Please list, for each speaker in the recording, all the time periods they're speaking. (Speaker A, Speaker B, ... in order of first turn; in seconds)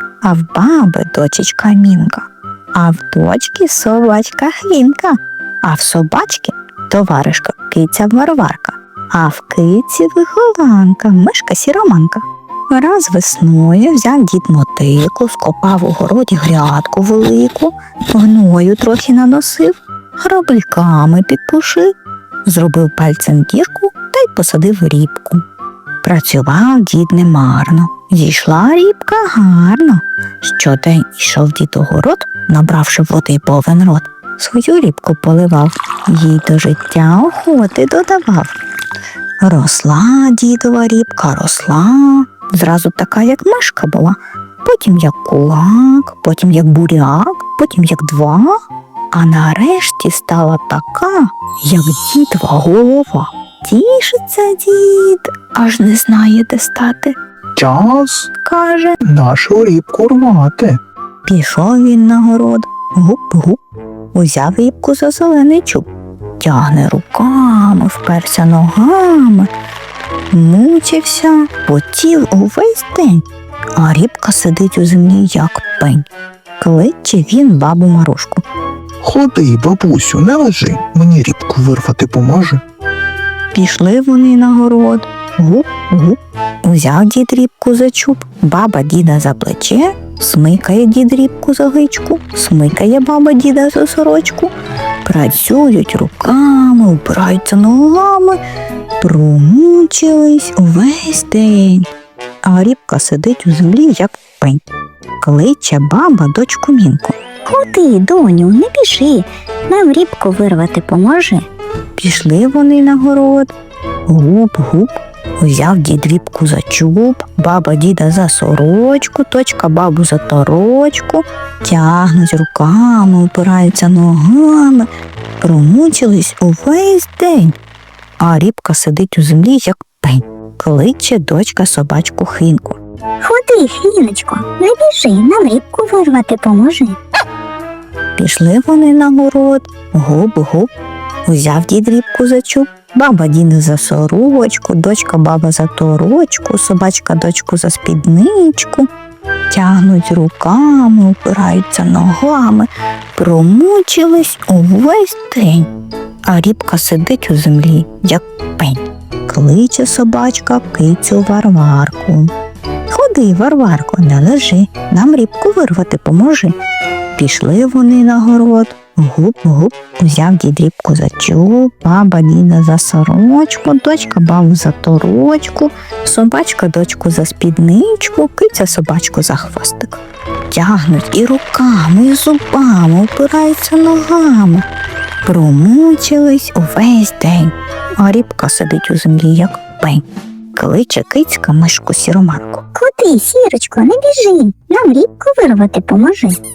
Speaker A: 0.2-21.9, 22.4-25.4, 26.0-38.5, 39.4-48.5, 49.1-57.1, 58.4-59.0, 61.2-63.6, 64.1-65.9, 66.4-69.5, 70.3-73.2, 73.8-76.0, 76.6-78.4, 83.5-94.5, 95.0-98.4, 99.0-101.8, 102.4-104.6, 105.2-107.2, 112.0-113.5, 114.1-124.9, 125.4-127.5, 128.2-132.8, 138.2-140.7, 141.2-148.9, 149.5-155.7, 156.2-162.3, 162.9-166.5, 167.2-184.6, 185.2-190.0, 190.5-192.6
Speaker B: 57.5-58.3, 59.0-60.8, 79.0-82.6
Speaker C: 107.5-111.5, 133.2-137.0, 192.7-196.4